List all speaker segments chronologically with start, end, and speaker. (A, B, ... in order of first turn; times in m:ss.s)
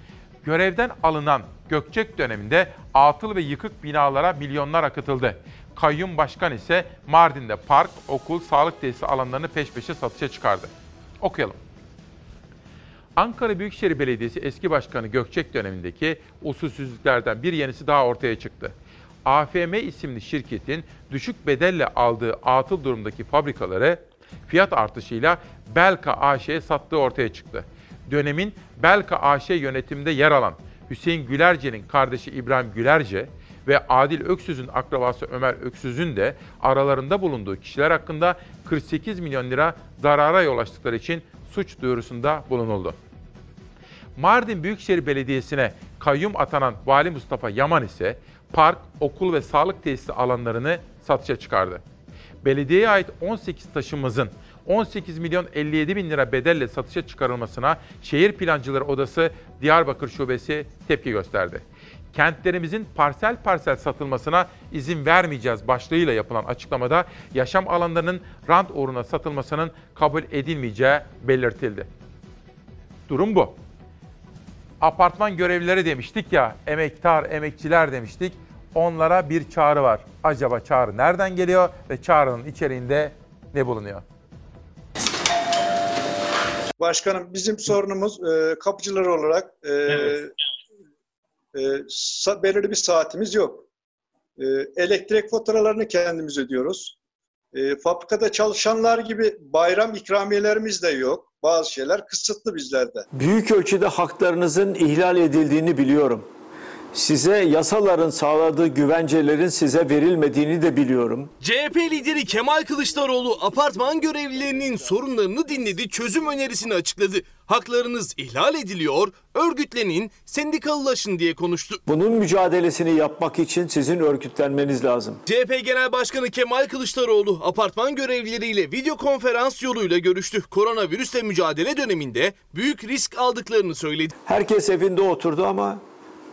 0:00.4-0:11.6 A
0:13.2-0:18.7 A
0:19.2-0:43.0 A
0:44.2-0:51.8 A
0:52.4-1:11.9 A
1:13.1-1:13.6 A
1:14.8-1:24.0 A
1:26.8-1:30.3 B
1:31.5-1:33.6 B
1:34.4-1:36.9 B
1:37.5-1:43.0 B
1:43.1-1:46.3 C
1:46.9-1:51.3 C
1:51.4-2:01.8 D
2:01.8-2:05.2 C
2:05.3-2:14.1 D
2:14.2-2:15.8 C